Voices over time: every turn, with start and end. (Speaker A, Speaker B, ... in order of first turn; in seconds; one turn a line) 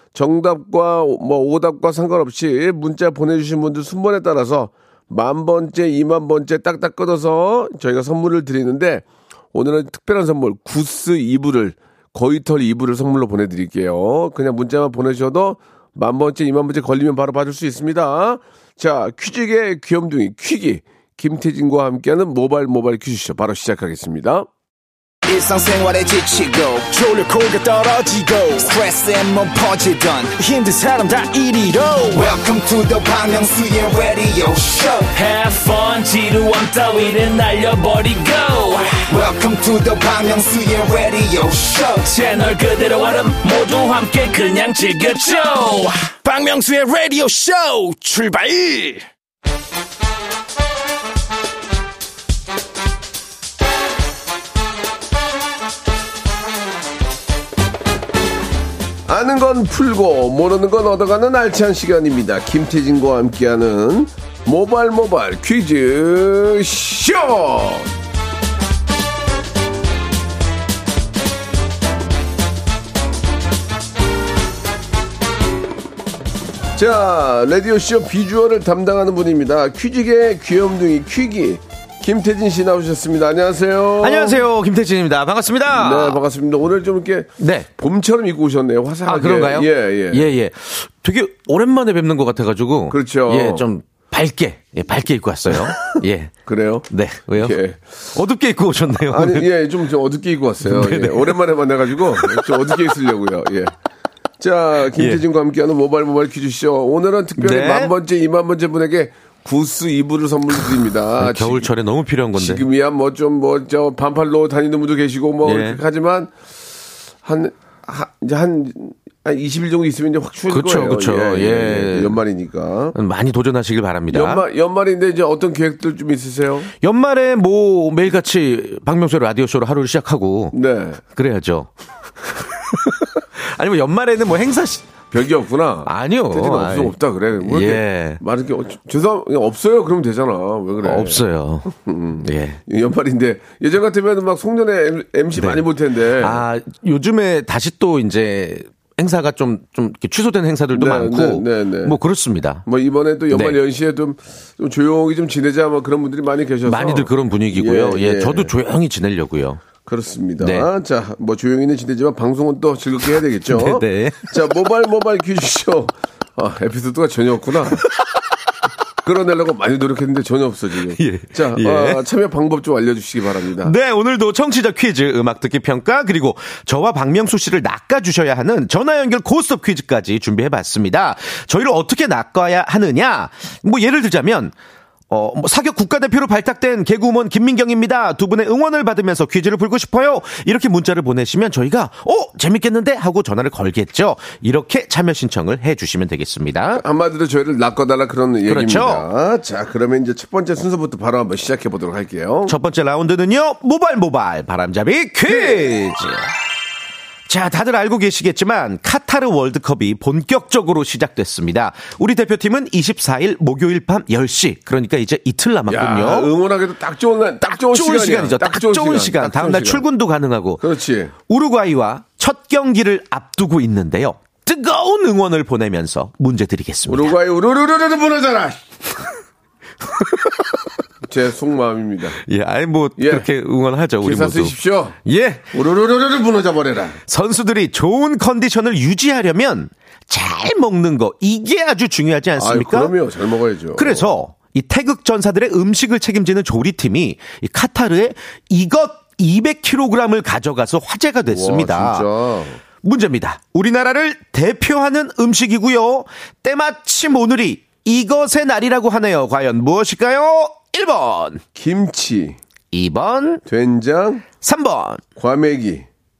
Speaker A: 0.1-24.5
Speaker B: 25.3-35.1
Speaker C: 35.1-39.1
Speaker B: 39.1-42.1
Speaker C: 42.0-46.1
Speaker D: 46.2-49.1
Speaker A: 59.1-67.9
Speaker A: 76.8-84.4
Speaker E: 84.0-86.2
Speaker A: 85.7-90.3
Speaker E: 87.4-87.7
Speaker E: 89.1-96.3
Speaker A: 92.9-93.7
Speaker A: 96.5-97.8
Speaker E: 96.9-99.5
Speaker A: 99.1-103.7
Speaker E: 100.6-101.4
Speaker E: 102.2-102.5
Speaker A: 104.4-111.7
Speaker E: 104.9-105.2
Speaker E: 107.4-107.9
Speaker E: 111.2-112.6
Speaker A: 112.3-116.3
Speaker E: 115.5-115.8
Speaker A: 117.2-123.0
Speaker E: 120.5-122.2
Speaker E: 122.9-124.5
Speaker A: 124.1-126.7
Speaker E: 126.8-130.6
Speaker A: 130.5-131.0
Speaker E: 131.2-131.7
Speaker E: 132.9-134.9
Speaker A: 135.1-146.4
Speaker E: 135.9-138.2
Speaker E: 140.8-142.6
Speaker E: 145.4-145.6
Speaker E: 146.2-152.7
Speaker A: 150.7-152.0
Speaker A: 152.7-158.5
Speaker E: 153.3-153.6
Speaker E: 156.7-159.6
Speaker A: 159.8-167.8
Speaker E: 160.4-160.7
Speaker E: 163.5-164.3
Speaker A: 169.0-173.7
Speaker E: 170.9-172.0
Speaker E: 173.6-184.5
Speaker E: 185.1-196.8
Speaker A: 196.7-202.6
Speaker E: 198.5-199.1
Speaker E: 202.5-206.3
Speaker A: 205.3-205.7
Speaker E: 207.3-216.3
Speaker A: 215.7-219.9
Speaker E: 217.4-220.7
Speaker A: 220.6-221.1
Speaker E: 221.3-227.1
Speaker A: 226.9-228.7
Speaker E: 230.0-230.3
Speaker A: 231.0-232.2
Speaker E: 232.2-235.5
Speaker A: 233.0-233.3
Speaker A: 234.0-235.0
Speaker A: 235.5-237.0
Speaker E: 237.1-242.9
Speaker A: 242.4-244.1
Speaker E: 243.8-252.1
Speaker A: 251.3-252.6
Speaker E: 252.8-261.4
Speaker A: 261.5-262.4
Speaker E: 262.7-263.4
Speaker A: 263.5-264.3
Speaker E: 264.4-265.1
Speaker A: 265.2-265.9